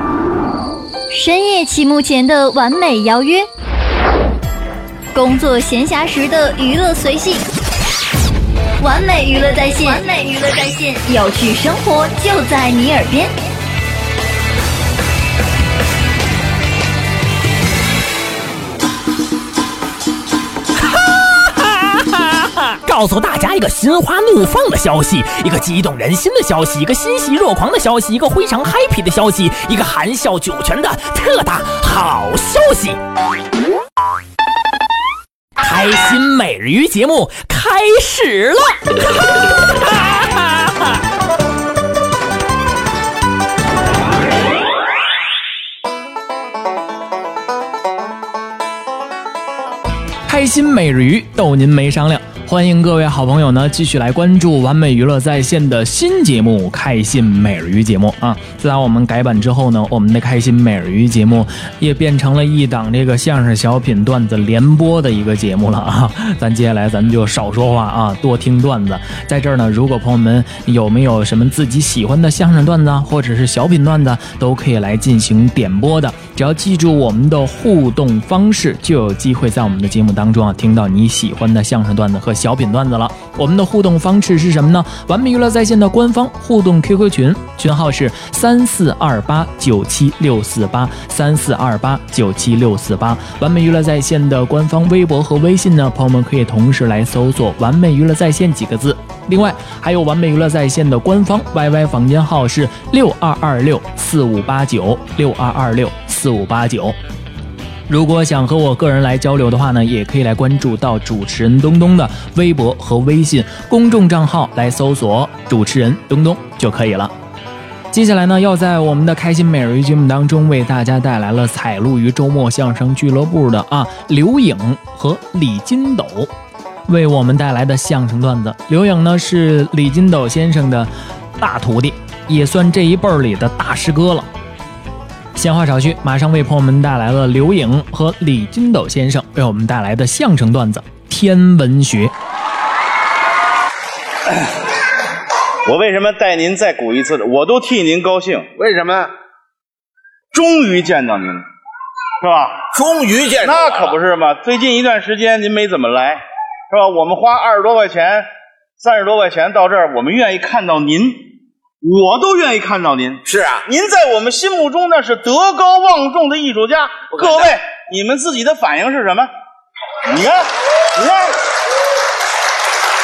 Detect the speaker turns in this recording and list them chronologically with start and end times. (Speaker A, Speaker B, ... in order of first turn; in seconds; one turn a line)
Speaker A: 1.1-3.5
Speaker A: 5.1-7.5
Speaker A: 8.8-13.3
Speaker B: 20.9-33.0
Speaker B: 35.6-40.8
Speaker C: 50.3-107.0
Speaker C: 107.9-117.1
Speaker C: 117.9-126.3
Speaker C: 126.9-134.3
Speaker C: 135.3-142.1
Speaker D: 145.7-148.5
Speaker E: 148.6-149.1
Speaker D: 150.3-151.4
Speaker D: 152.2-152.6
Speaker E: 152.7-153.9
Speaker D: 153.4-158.3
Speaker D: 158.8-161.2
Speaker D: 161.8-169.3
Speaker E: 163.2-163.7
Speaker E: 167.1-167.6
Speaker D: 170.0-171.3